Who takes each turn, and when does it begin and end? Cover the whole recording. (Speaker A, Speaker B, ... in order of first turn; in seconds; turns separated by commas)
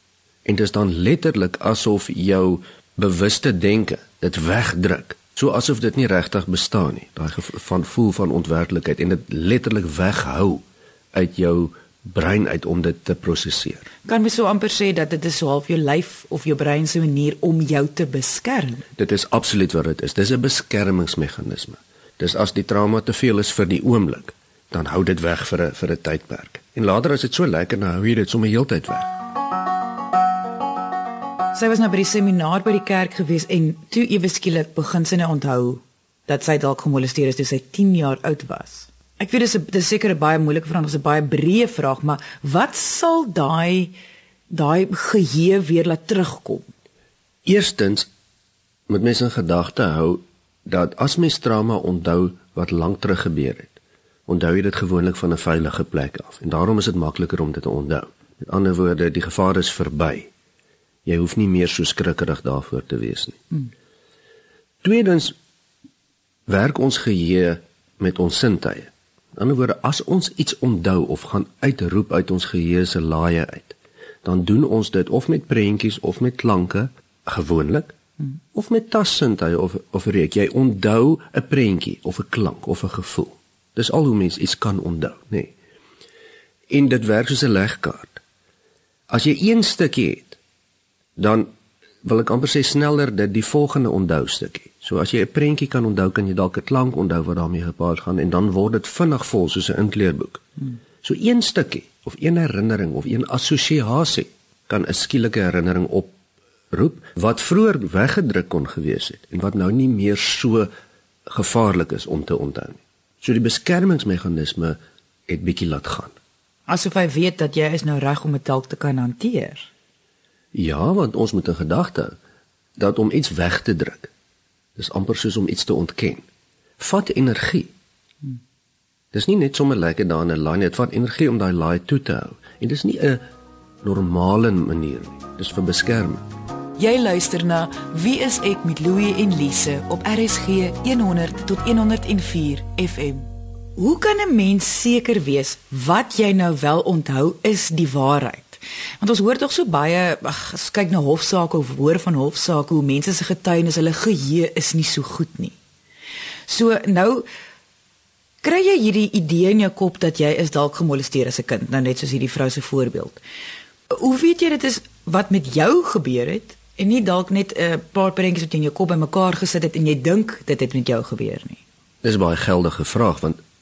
Speaker A: 0.4-13.8, Speaker B: 14.0-18.9, Speaker A: 19.0-29.1, Speaker B: 31.5-43.9, Speaker B: 44.5-46.7, Speaker A: 47.5-48.1, Speaker A: 48.9-60.3, Speaker A: 61.0-63.5, Speaker A: 64.8-65.3, Speaker A: 66.5-77.9, Speaker A: 78.5-85.5, Speaker A: 86.7-88.2, Speaker A: 89.1-90.4, Speaker A: 91.2-91.5, Speaker A: 92.0-100.4, Speaker A: 101.0-106.1, Speaker A: 106.7-110.7, Speaker A: 111.3-116.2, Speaker B: 116.7-119.7, Speaker A: 120.5-122.2, Speaker A: 122.8-124.1, Speaker A: 124.8-126.2, Speaker A: 126.8-127.7, Speaker A: 129.1-133.2, Speaker A: 133.8-136.2, Speaker B: 136.8-155.6, Speaker B: 156.5-157.2, Speaker B: 158.4-163.2, Speaker B: 163.9-171.6, Speaker A: 172.0-173.4